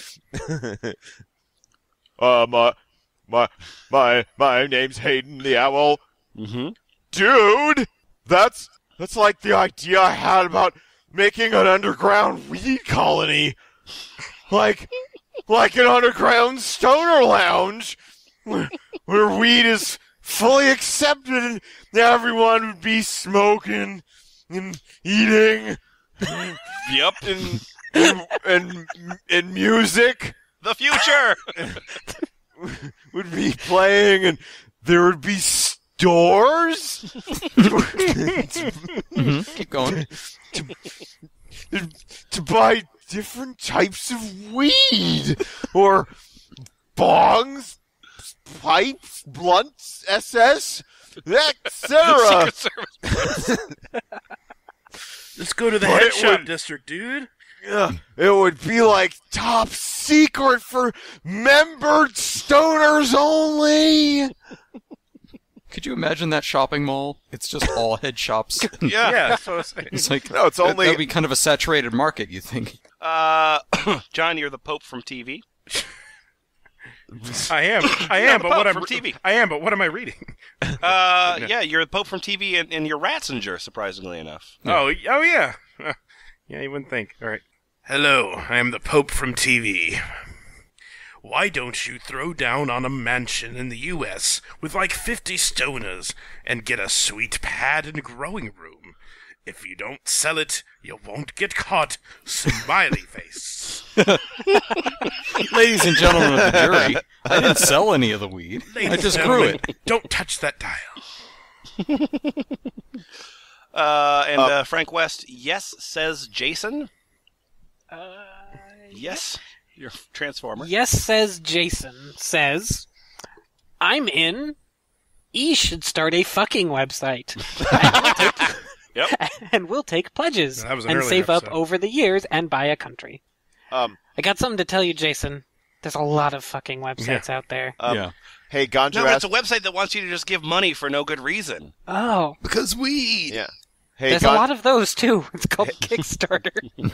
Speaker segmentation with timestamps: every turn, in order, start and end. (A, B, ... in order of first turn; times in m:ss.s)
0:00.3-0:01.0 A
0:02.2-0:02.8 A
0:03.3-0:06.0 A
0:06.4-0:06.8 B
0:07.1-0:13.6 A
0:14.5-0:14.9 A
0:15.5-0:30.4 A
0:26.8-0:27.6 B
0:30.6-0:31.4 B
0:31.6-0:31.8 A
0:32.6-0:37.0 A
0:37.6-0:39.3 A
0:39.1-0:40.1 C
0:39.8-0:40.8 A
0:41.7-0:46.1 A
0:47.0-0:52.5 A
0:51.9-0:53.4 B
0:53.1-0:53.7 A
0:55.4-0:57.3 D
0:55.8-0:56.5 A
0:57.6-1:04.3 A
1:05.7-1:09.2 C
1:08.6-1:09.4 E
1:09.0-1:10.0 D
1:09.9-1:12.8 C
1:10.3-1:11.0 A
1:13.0-1:15.4 B
1:17.2-1:17.4 A
1:17.5-1:21.5 D
1:18.0-1:19.2 B
1:20.8-1:24.6 B
1:24.6-1:26.0 D
1:26.5-1:30.0 D
1:31.2-1:43.9 D
1:44.0-1:49.6 C
1:46.2-1:47.7 A
1:48.7-1:51.0 D
1:51.9-1:52.2 B
1:53.7-1:56.9 B
1:57.9-1:59.2 E
1:58.9-2:00.7 B
2:00.6-2:02.9 E
2:03.8-2:04.6 E
2:05.3-2:13.2 E
2:07.7-2:08.2 A
2:10.6-2:11.6 D
2:13.7-2:14.0 A
2:14.2-2:17.8 E
2:17.0-2:17.2 D
2:17.8-2:19.3 A
2:17.8-2:18.1 C
2:18.9-2:21.7 B
2:21.9-2:22.4 E
2:22.4-2:23.4 C
2:23.3-2:24.4 A
2:24.1-2:26.7 E